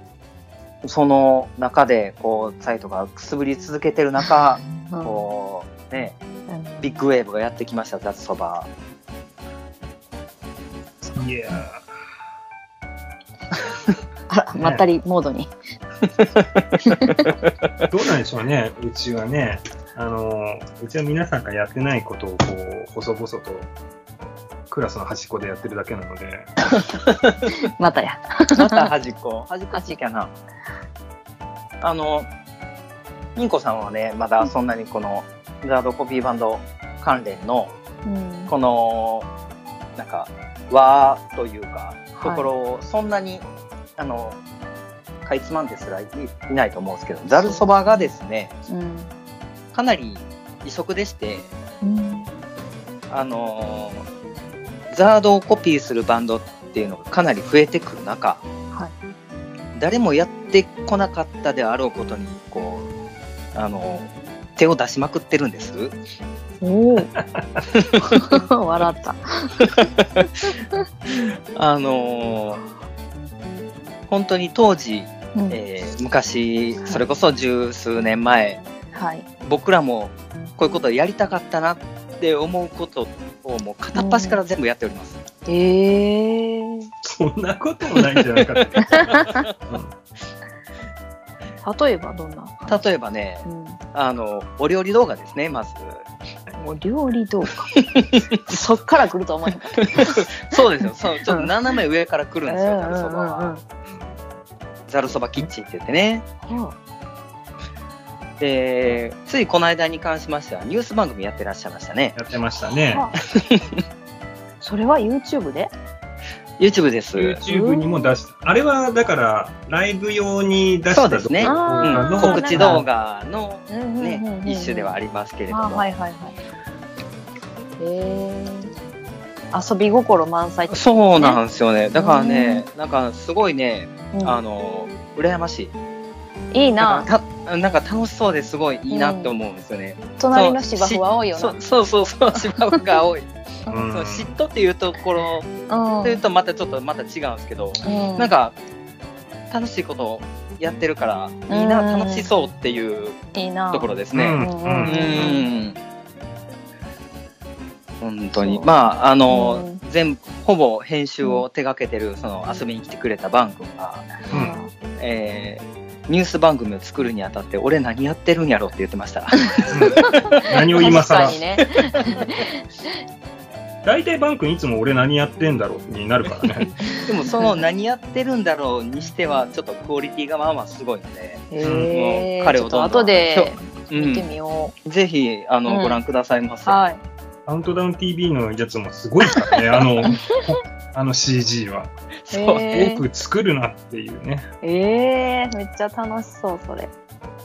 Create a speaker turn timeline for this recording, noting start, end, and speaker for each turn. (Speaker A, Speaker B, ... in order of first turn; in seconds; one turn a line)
Speaker A: 0.8-6.2
Speaker B: 4.6-5.2
Speaker B: 6.5-7.0
Speaker A: 6.8-8.7
Speaker B: 11.0-11.6
Speaker C: 11.1-11.9
Speaker B: 14.3-15.5
Speaker C: 14.6-14.8
Speaker B: 16.8-17.3
Speaker C: 17.9-23.7
Speaker C: 24.7-26.5
Speaker B: 27.6-28.9
Speaker A: 28.5-30.3
Speaker A: 31.8-32.3
Speaker A: 33.4-37.7
Speaker B: 38.0-38.5
Speaker A: 38.5-39.3
Speaker A: 40.0-43.5
Speaker B: 42.2-42.5
Speaker A: 44.0-44.4
Speaker A: 45.2-48.6
Speaker B: 47.3-48.1
Speaker B: 48.7-49.1
Speaker A: 49.7-51.5
Speaker B: 51.8-52.3
Speaker A: 53.1-54.1
Speaker A: 54.9-58.4
Speaker A: 59.8-62.9
Speaker A: 63.5-65.9
Speaker B: 66.6-67.1
Speaker C: 67.2-67.7
Speaker B: 68.1-69.5
Speaker A: 69.6-70.2
Speaker A: 71.5-72.6
Speaker A: 74.1-78.6
Speaker B: 78.9-79.2
Speaker A: 79.4-85.2
Speaker B: 83.9-84.4
Speaker B: 85.5-86.9
Speaker C: 87.0-89.1
Speaker B: 88.8-89.4
Speaker C: 89.7-89.9
Speaker B: 91.6-92.8
Speaker A: 92.7-96.0
Speaker B: 93.4-93.8
Speaker B: 96.6-97.7
Speaker A: 97.7-98.4
Speaker B: 98.5-100.5
Speaker A: 99.8-103.5
Speaker B: 102.5-103.6
Speaker A: 104.9-106.2
Speaker B: 106.4-106.8
Speaker A: 108.4-112.2
Speaker C: 112.1-113.0
Speaker B: 112.9-113.2
Speaker A: 113.3-113.8
Speaker B: 114.6-115.7
Speaker A: 116.6-117.4
Speaker C: 117.2-122.8
Speaker B: 117.5-118.2
Speaker A: 120.9-125.9
Speaker B: 121.4-122.8
Speaker B: 123.7-124.9
Speaker B: 125.5-126.4
Speaker B: 127.8-128.7
Speaker B: 129.5-131.4
Speaker A: 130.7-135.7
Speaker B: 131.9-132.6
Speaker B: 134.1-134.4
Speaker B: 136.5-137.1
Speaker A: 136.8-145.5
Speaker B: 138.9-139.3
Speaker B: 140.2-141.6
Speaker C: 143.7-144.3
Speaker B: 145.7-146.2
Speaker A: 146.0-148.6
Speaker B: 147.8-148.3
Speaker A: 149.5-153.2
Speaker B: 151.5-152.3
Speaker B: 153.3-155.5
Speaker A: 153.7-155.8
Speaker C: 154.1-155.0
Speaker A: 158.0-164.2
Speaker B: 158.3-158.7
Speaker B: 159.3-159.8
Speaker B: 164.3-164.7
Speaker C: 164.3-164.6
Speaker A: 165.0-172.0
Speaker C: 169.7-171.3
Speaker B: 170.0-172.6
Speaker C: 173.8-176.8
Speaker A: 177.1-184.2
Speaker B: 177.3-177.6
Speaker B: 181.5-184.7
Speaker C: 181.6-181.9
Speaker A: 184.8-186.8
Speaker B: 185.7-186.0
Speaker B: 186.7-187.0
Speaker C: 187.4-191.9
Speaker A: 192.3-192.7
Speaker B: 192.3-193.0
Speaker C: 192.6-194.4
Speaker B: 194.6-196.9